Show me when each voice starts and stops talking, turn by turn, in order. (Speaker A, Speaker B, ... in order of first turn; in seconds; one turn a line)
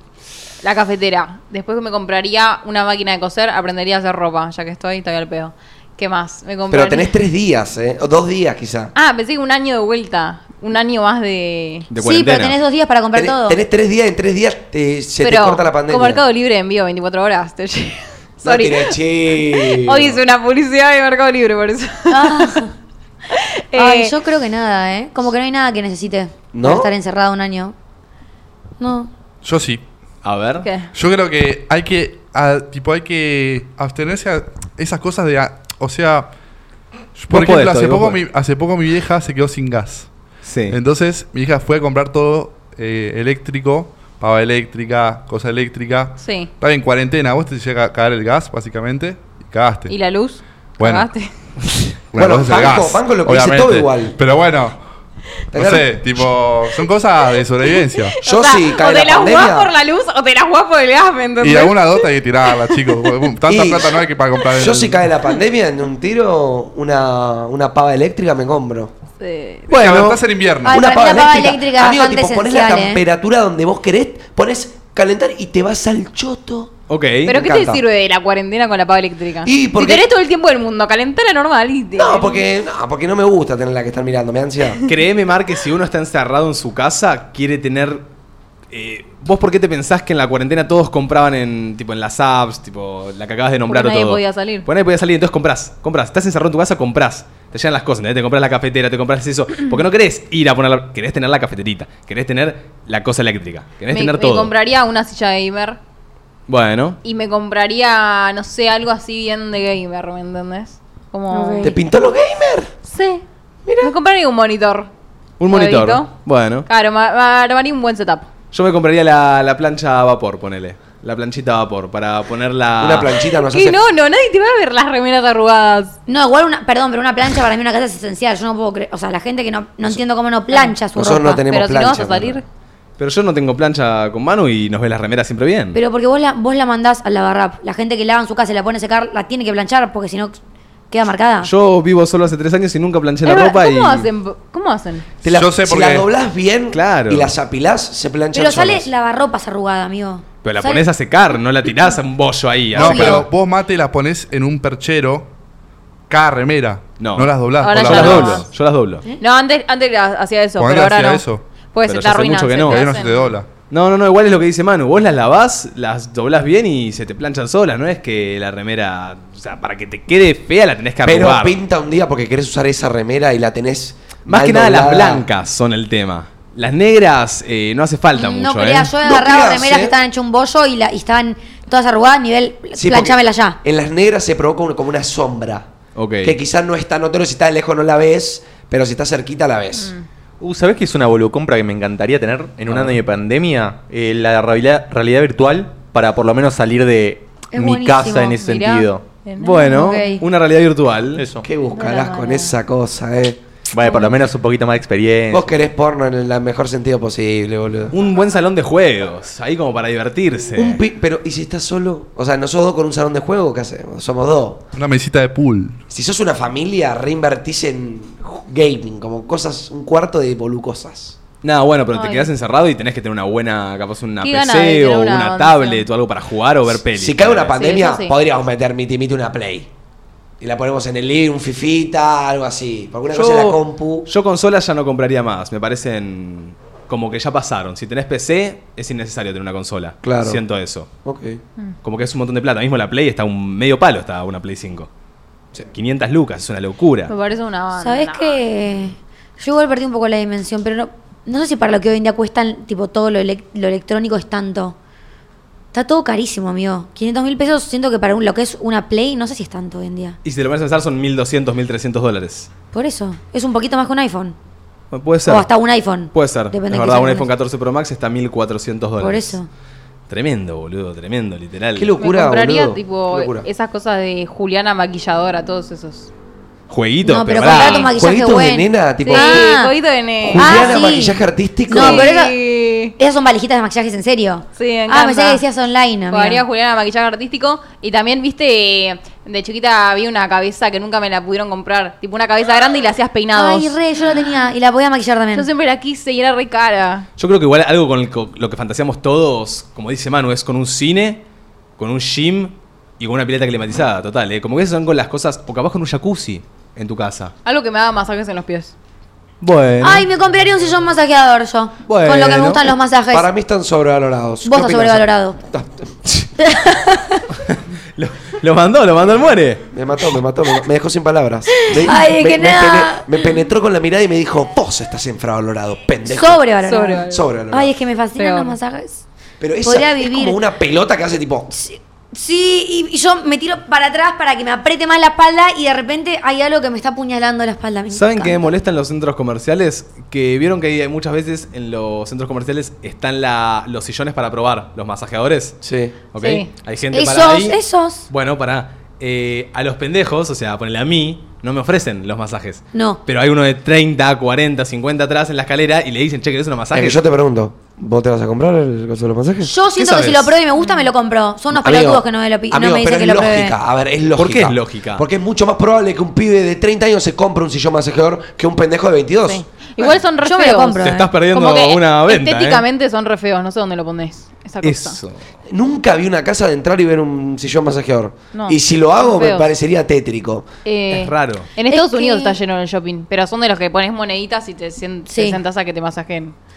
Speaker A: 0.6-7.1
Speaker B: 6.7-8.9
Speaker A: 8.9-11.9
Speaker C: 11.9-12.6
Speaker D: 12.0-13.6
Speaker B: 13.1-16.2
Speaker A: 15.2-22.6
Speaker B: 18.4-20.2
Speaker D: 22.1-22.7
Speaker A: 23.3-24.1
Speaker D: 23.8-27.7
Speaker B: 26.5-26.9
Speaker D: 28.8-29.1
Speaker E: 29.4-29.8
Speaker C: 30.2-30.7
Speaker A: 30.6-30.9
Speaker E: 30.9-36.3
Speaker E: 37.1-40.1
Speaker C: 37.3-38.2
Speaker C: 40.4-40.8
Speaker E: 40.7-50.0
Speaker A: 46.2-46.5
Speaker A: 49.9-51.3
Speaker E: 50.8-51.1
Speaker E: 52.1-54.8
Speaker B: 52.2-54.2
Speaker E: 55.5-58.2
Speaker B: 55.5-56.2
Speaker A: 57.7-63.3
Speaker B: 58.2-59.7
Speaker E: 61.4-65.1
Speaker B: 63.5-64.0
Speaker B: 64.5-68.9
Speaker A: 69.2-69.7
Speaker B: 69.7-76.7
Speaker E: 69.7-70.8
Speaker C: 69.8-70.2
Speaker D: 70.7-73.0
Speaker C: 76.9-77.3
Speaker A: 77.2-82.5
Speaker B: 77.3-77.8
Speaker B: 79.4-80.1
Speaker B: 82.0-84.9
Speaker C: 84.8-88.1
Speaker C: 88.7-104.5
Speaker A: 93.7-94.7
Speaker A: 103.9-105.8
Speaker C: 106.5-107.0
Speaker A: 107.0-111.8
Speaker D: 111.3-111.8
Speaker B: 111.6-112.7
Speaker A: 112.8-113.2
Speaker B: 113.7-113.9
Speaker A: 113.8-114.9
Speaker C: 115.4-116.7
Speaker A: 115.5-116.1
Speaker A: 116.7-118.3
Speaker C: 118.5-123.2
Speaker B: 122.8-123.8
Speaker A: 123.3-126.0
Speaker D: 126.1-131.5
Speaker B: 130.9-132.4
Speaker A: 131.5-132.4
Speaker C: 133.0-135.8
Speaker D: 135.7-140.4
Speaker D: 140.9-141.5
Speaker C: 141.4-144.1
Speaker A: 143.2-145.1
Speaker B: 145.2-148.9
Speaker E: 145.3-146.1
Speaker C: 146.7-147.3
Speaker D: 148.3-150.8
Speaker C: 150.4-153.2
Speaker E: 152.8-155.3
Speaker D: 152.8-153.3
Speaker E: 156.1-158.5
Speaker C: 157.0-159.0
Speaker A: 157.6-158.5
Speaker A: 159.2-163.3
Speaker E: 160.6-161.4
Speaker C: 161.9-162.9
Speaker E: 162.7-163.5
Speaker C: 163.7-171.6
Speaker B: 171.0-175.2
Speaker C: 174.3-178.9
Speaker D: 178.2-183.6
Speaker B: 179.0-179.9
Speaker B: 182.8-185.7
Speaker C: 185.9-186.4
Speaker B: 186.2-189.9
Speaker A: 189.8-190.1
Speaker F: 190.4-199.0
Speaker C: 192.7-192.9
Speaker D: 197.5-198.5
Speaker A: 198.4-200.2
Speaker C: 199.4-201.2
Speaker D: 199.7-200.2
Speaker F: 201.2-201.5
Speaker B: 201.4-203.4
Speaker A: 201.7-202.5
Speaker D: 201.9-202.4
Speaker F: 203.7-205.6
Speaker B: 205.3-207.9
Speaker C: 207.9-210.8
Speaker B: 210.6-214.7
Speaker E: 214.8-215.8
Speaker B: 215.9-221.2
Speaker C: 221.4-227.6
Speaker A: 221.9-222.3
Speaker A: 224.2-225.9
Speaker B: 226.9-229.7
Speaker A: 227.6-228.2
Speaker B: 230.4-234.1
Speaker C: 233.1-240.9
Speaker B: 240.0-240.4
Speaker B: 241.1-241.4
Speaker C: 241.8-244.9
Speaker C: 245.7-247.1
Speaker A: 247.1-248.4
Speaker D: 247.8-254.8
Speaker D: 255.7-260.2
Speaker C: 260.2-262.5
Speaker D: 262.7-264.4
Speaker C: 264.9-265.5
Speaker D: 265.3-267.3
Speaker C: 266.1-269.4
Speaker D: 269.0-269.5
Speaker C: 270.1-271.9
Speaker B: 271.8-273.5
Speaker A: 272.0-276.1
Speaker C: 276.7-277.9
Speaker D: 277.0-279.8
Speaker B: 277.5-279.5
Speaker A: 279.0-281.0
Speaker B: 280.2-282.1
Speaker D: 280.4-282.4
Speaker A: 281.7-282.9
Speaker D: 283.0-286.4
Speaker A: 284.6-285.4
Speaker A: 286.1-293.8
Speaker D: 293.3-295.5
Speaker A: 295.3-297.1
Speaker C: 297.2-301.2
Speaker C: 301.8-307.3
Speaker A: 307.4-308.8
Speaker C: 309.4-310.1
Speaker D: 309.8-313.3
Speaker C: 311.9-312.7
Speaker B: 313.1-316.0
Speaker D: 314.4-315.4
Speaker D: 316.4-317.2
Speaker C: 317.4-319.6
Speaker B: 319.7-326.4
Speaker D: 321.7-323.4
Speaker D: 326.1-329.0
Speaker A: 326.6-327.2
Speaker B: 327.1-327.7
Speaker A: 328.2-328.6
Speaker B: 329.4-331.5
Speaker D: 329.6-330.4
Speaker D: 331.5-338.5
Speaker C: 337.9-345.6
Speaker B: 345.6-345.9
Speaker C: 346.1-347.6
Speaker A: 346.2-346.5
Speaker D: 346.9-348.1
Speaker C: 348.1-357.0
Speaker D: 352.7-353.0
Speaker B: 356.7-359.5
Speaker D: 359.4-363.6
Speaker C: 359.8-360.3
Speaker A: 360.6-360.9
Speaker B: 361.5-369.4
Speaker C: 364.1-365.0
Speaker A: 369.3-375.0
Speaker D: 370.2-371.1
Speaker C: 370.8-372.6
Speaker C: 374.6-375.2
Speaker B: 375.5-380.5
Speaker A: 378.3-379.5
Speaker A: 380.6-386.4
Speaker C: 380.9-381.5
Speaker D: 381.7-382.4
Speaker D: 385.1-385.4